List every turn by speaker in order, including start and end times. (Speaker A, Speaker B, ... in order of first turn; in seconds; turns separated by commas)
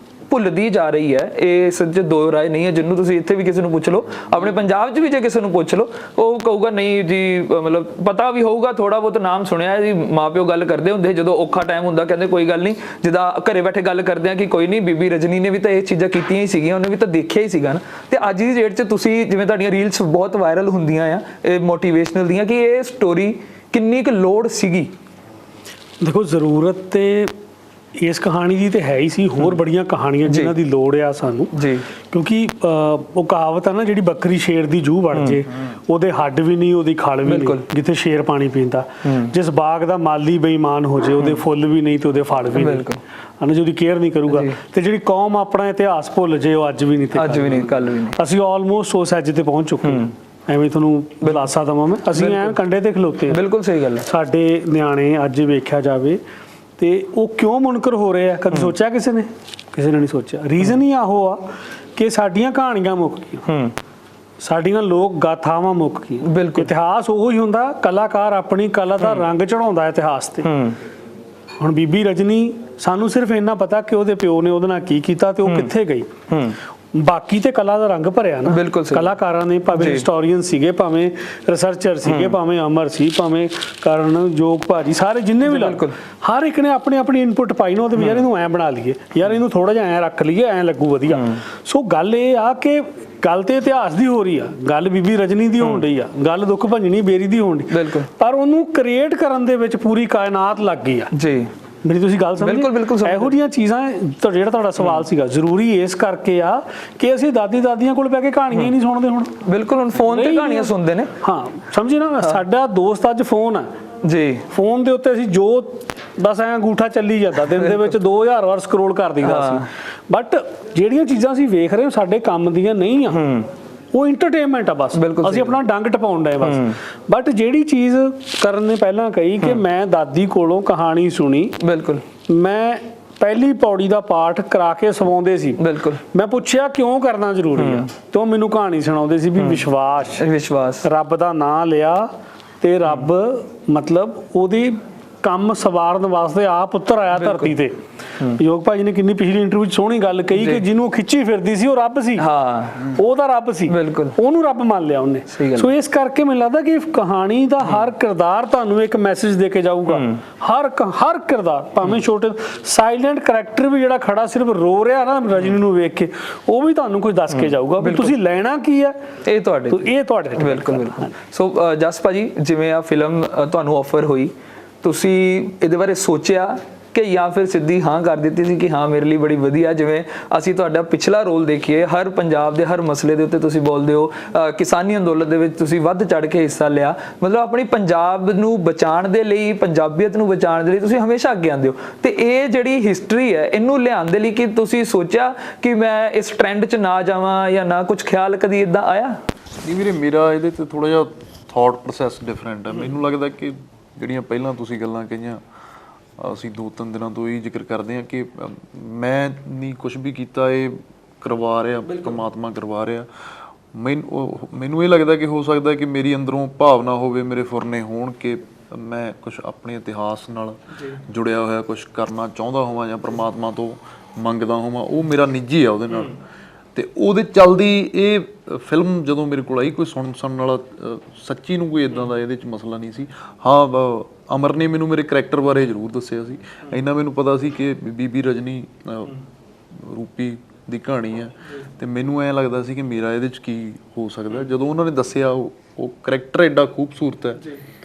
Speaker A: 0.3-24.9, Speaker B: 26.0-27.3, Speaker B: 28.0-42.8, Speaker A: 30.2-30.5, Speaker A: 31.5-31.9, Speaker A: 35.1-35.4, Speaker A: 37.3-37.6, Speaker A: 39.1-39.3, Speaker A: 42.5-43.0, Speaker B: 43.4-53.4, Speaker A: 44.3-44.6, Speaker A: 47.1-48.2, Speaker A: 49.8-50.1, Speaker A: 52.1-52.6, Speaker A: 53.3-54.0, Speaker B: 54.0-56.2, Speaker B: 56.8-63.5, Speaker A: 63.5-63.7, Speaker B: 64.4-70.5, Speaker A: 66.2-66.7, Speaker A: 70.5-70.8, Speaker B: 71.6-76.1, Speaker A: 75.5-75.7, Speaker A: 76.3-76.6, Speaker B: 76.9-101.1, Speaker A: 78.5-79.1, Speaker A: 79.8-80.1, Speaker A: 82.1-82.4, Speaker A: 85.5-86.0, Speaker A: 88.0-88.2, Speaker A: 91.1-91.4, Speaker A: 97.7-98.1, Speaker A: 101.1-101.5, Speaker B: 101.8-109.4, Speaker A: 102.4-103.3, Speaker A: 109.5-111.1, Speaker B: 110.0-113.7, Speaker A: 114.0-114.5, Speaker B: 114.5-123.2, Speaker A: 119.2-119.7, Speaker A: 123.1-123.5, Speaker B: 123.9-131.6, Speaker A: 125.0-125.5, Speaker A: 126.4-126.8, Speaker A: 131.6-132.0, Speaker B: 132.3-135.6, Speaker A: 135.6-136.0, Speaker B: 136.1-140.3, Speaker A: 137.6-137.9, Speaker A: 139.4-139.6, Speaker A: 140.2-140.8, Speaker B: 140.8-147.8, Speaker A: 147.2-147.6, Speaker B: 148.3-152.3, Speaker A: 150.4-150.6, Speaker A: 152.2-153.0, Speaker B: 152.8-169.0, Speaker A: 153.7-154.2, Speaker A: 155.3-155.7, Speaker A: 159.9-160.2, Speaker A: 167.3-168.1, Speaker A: 169.3-199.2, Speaker B: 169.7-171.1, Speaker C: 199.6-205.4, Speaker C: 206.2-226.2, Speaker C: 226.8-239.2, Speaker C: 239.7-247.4